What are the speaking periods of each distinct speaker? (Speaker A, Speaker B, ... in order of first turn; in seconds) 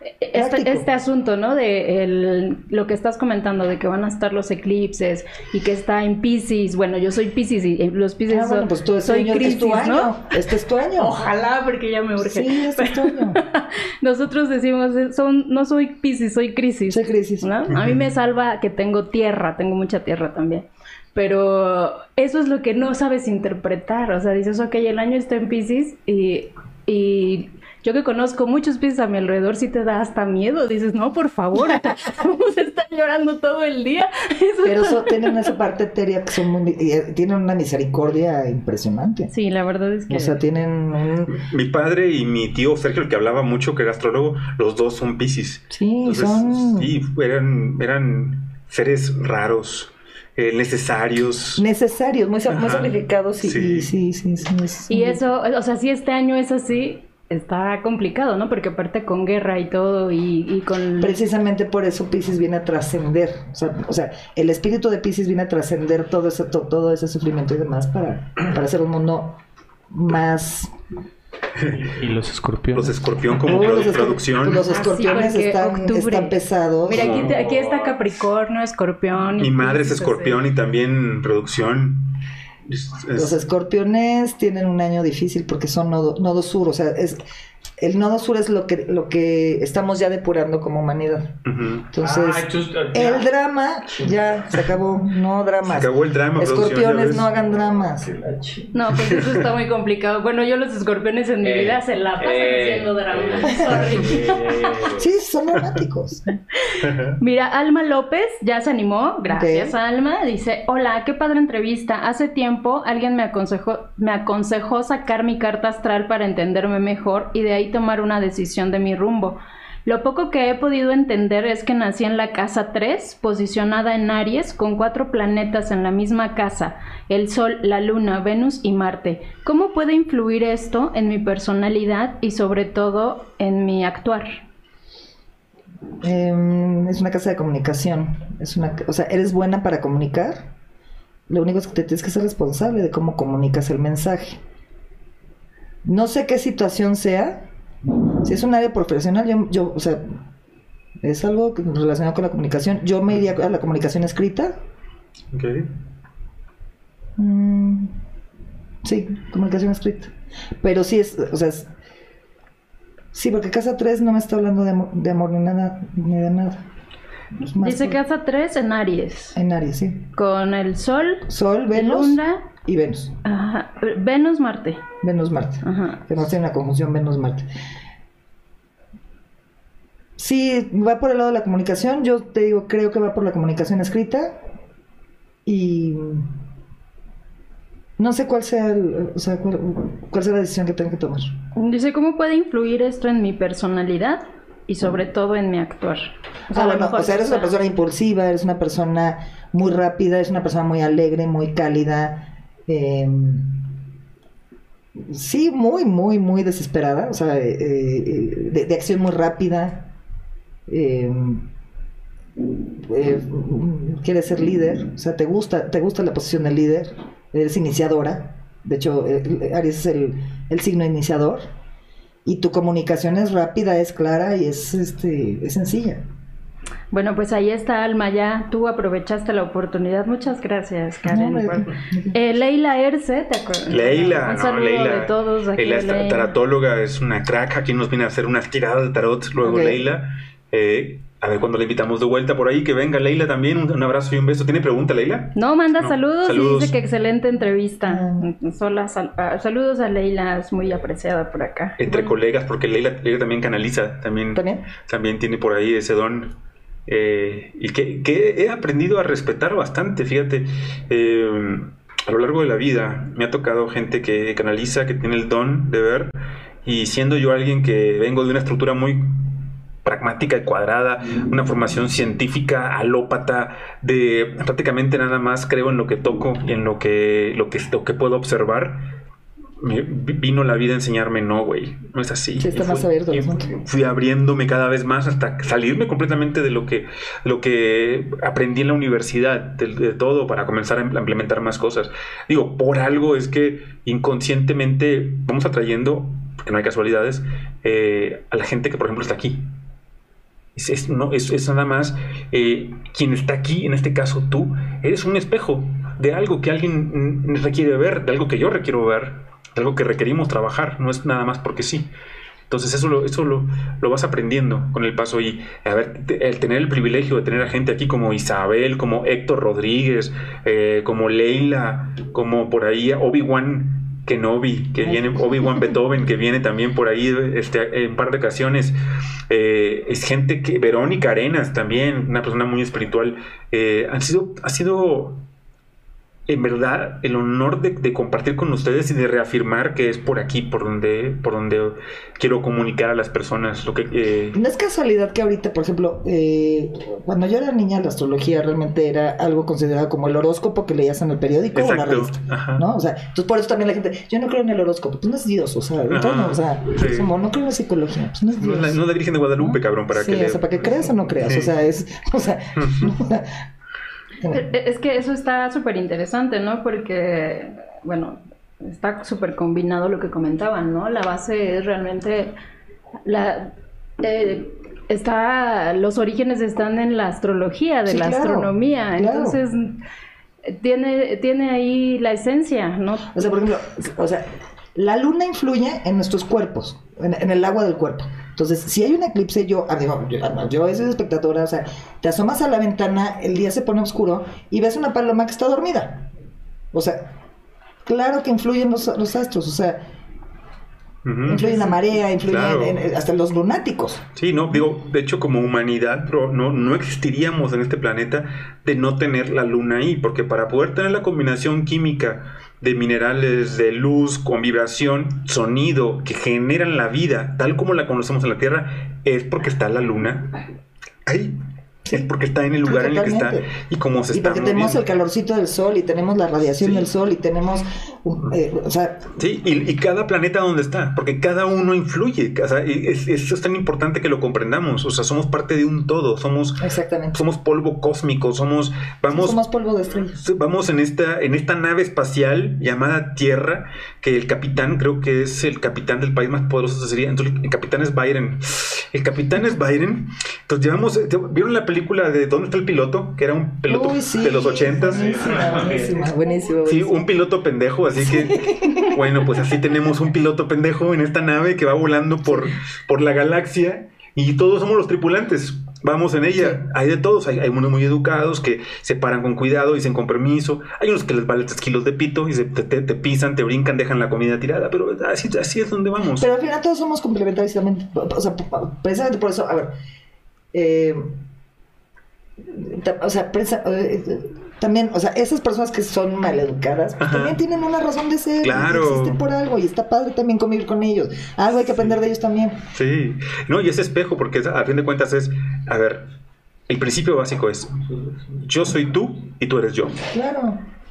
Speaker A: 0.2-10.4, 11.0-35.5, 39.3-40.4, 54.9-61.2, 74.6-80.4, 98.7-104.8, 106.6-134.3, 167.6-169.3, 170.1-172.4, 173.2-174.8, 175.6-176.0, 191.5-197.5, 226.9-236.3, 245.3-252.1, 364.3-372.3, 373.0-379.8, 380.4-383.2, 401.4-401.8
Speaker B: 0.3-0.8, 8.3-11.1, 12.2-13.4, 16.9-17.5, 34.6-39.3, 40.1-41.3, 45.7-46.9, 51.5-55.2, 61.0-69.4, 69.9-70.7, 73.4-77.1, 83.1-87.2, 87.8-91.4, 91.9-98.1, 105.0-106.2, 109.3-109.7, 136.0-140.5, 141.3-144.4, 145.8-147.4, 148.2-150.2, 151.0-154.6, 157.2-157.9, 158.8-161.7, 163.1-166.6, 167.4-168.0, 169.3-170.0, 171.3-173.2, 175.0-177.5, 180.2-184.4, 185.4-186.3, 188.0-191.3, 196.5-203.6, 205.0-209.9, 210.7-211.4, 212.8-221.4, 222.2-226.0, 231.1-232.2, 239.4-239.8, 247.8-248.3, 254.3-254.7, 282.4-283.6, 324.8-325.7, 344.3-358.8, 359.4-363.4, 377.9-379.4, 383.1-396.1, 396.7-397.1, 397.9-399.8, 401.2-404.1, 422.6-423.5, 424.1-429.1, 436.6-437.2, 439.1-440.2, 453.7-457.0, 458.0-459.3, 476.2-479.7, 480.5-481.1, 482.4-492.6, 500.1-500.6
Speaker C: 17.7-18.0, 41.3-51.6, 52.5-53.9, 72.7-74.7, 76.9-77.5, 79.4-82.1, 82.7-83.3, 91.4-91.9, 95.6-97.3, 98.9-99.5, 106.8-107.2, 155.3-155.7, 233.7-246.7, 251.8-256.3, 256.9-266.1, 266.6-278.8, 279.6-299.4, 300.6-311.9, 312.5-328.7, 329.3-335.2, 336.3-344.4, 351.5-352.6, 355.9-357.1, 358.4-361.5, 362.6-362.9, 401.0-401.6, 402.2-402.8, 404.1-420.4, 421.1-421.4, 421.9-424.8, 426.6-426.9, 429.1-455.6, 456.6-476.3, 487.0-487.4, 488.4-489.2, 492.7-496.1, 496.7-497.8, 498.3-500.0
Speaker D: 71.7-73.2, 76.9-78.0, 92.0-93.3, 97.4-98.7, 101.4-105.0, 454.7-456.1